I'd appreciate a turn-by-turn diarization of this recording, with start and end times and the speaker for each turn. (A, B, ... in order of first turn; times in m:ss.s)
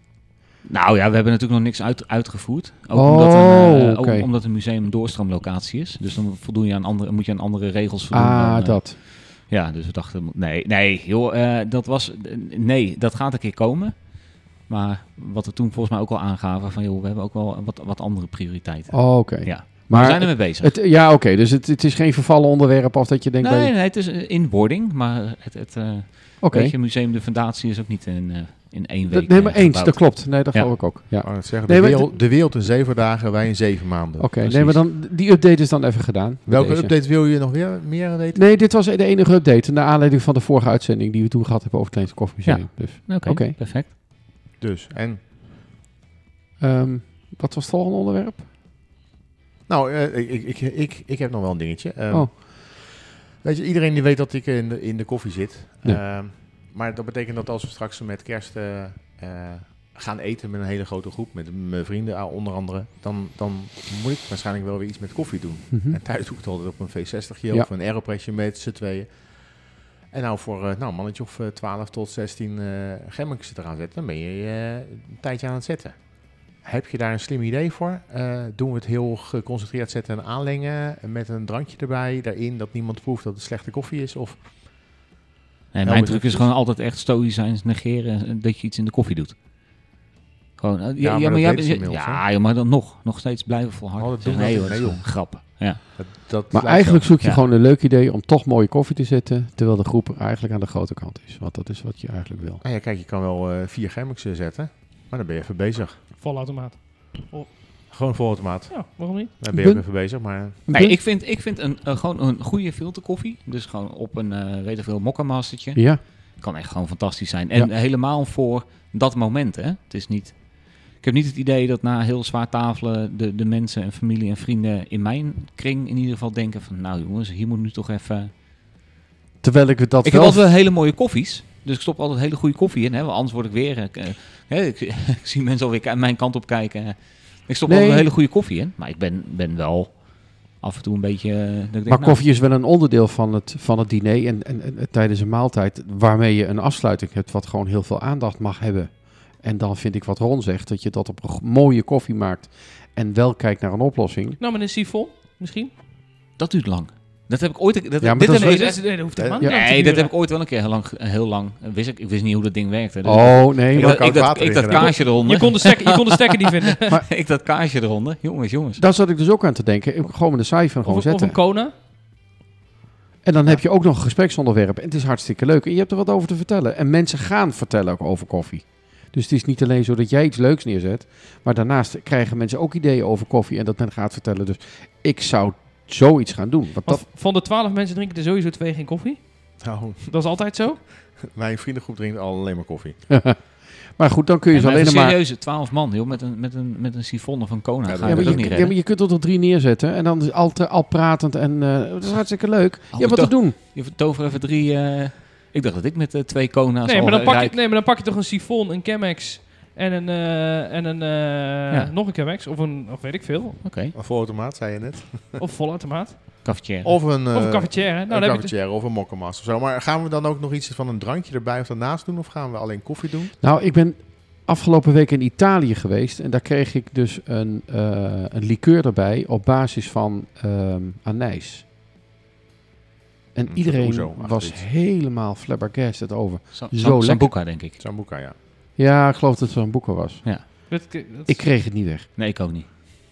0:00.6-0:20.8 A
0:02.9-0:04.3 B
0:08.1-0:09.0 B
0:18.9-0:23.7 B
0:23.4-0:31.2 A
0:26.4-0:26.8 B
0:29.1-0:32.2 B
0:31.2-0:34.6 C
0:34.2-0:36.9 B
0:34.4-0:34.8 A
0:36.5-0:38.4 C
0:38.4-0:43.6 B
0:42.4-0:43.9 A
0:44.6-0:45.2 C
0:46.6-0:48.5 B
0:49.7-1:09.4 C
1:05.7-1:06.0 B
1:10.1-1:24.9 C
1:25.7-1:29.4 A
1:25.8-1:26.5 C
1:30.6-1:35.8 A
1:31.0-1:32.2 C
1:34.0-1:37.1 C
1:36.5-1:42.6 B
1:42.6-1:46.0 C
1:46.1-1:47.5 D
1:47.9-1:50.6 C
1:48.7-1:49.4 D
1:49.5-1:51.0 B
1:50.7-2:08.3 A
1:55.8-1:56.0 B
2:09.4-2:10.5 B
2:10.0-2:22.2 A
2:17.7-2:18.0 B
2:21.9-2:34.4 B
2:34.4-2:35.7 D
2:36.4-2:48.8 A
2:38.0-2:38.8 B
2:38.2-2:40.1 D
2:39.2-2:39.4 C
2:43.0-2:44.4 B
2:43.7-2:45.1 C
2:44.7-2:47.0 D
2:48.8-2:51.4 B
2:50.8-2:51.7 D
2:53.2-3:07.0 B
3:06.8-3:10.8 D
3:09.6-3:10.4 C
3:11.1-3:13.0 C
3:13.1-3:15.2 B
3:14.5-3:18.8 A
3:17.8-3:18.7 C
3:18.0-3:23.6 B
3:22.9-3:27.6 A
3:26.8-3:33.6 D
3:33.6-3:33.9 A
3:33.9-3:35.4 C
3:35.4-3:36.5 D
3:36.4-3:37.0 A
3:36.8-3:43.3 C
3:37.3-3:38.5 D
3:43.4-3:51.6 B
3:53.3-3:57.4 B
3:53.5-3:54.7 C
3:56.5-3:57.8 A
3:57.8-3:58.4 C
3:58.8-4:02.1 B
4:00.7-4:01.5 D
4:02.2-4:02.7 A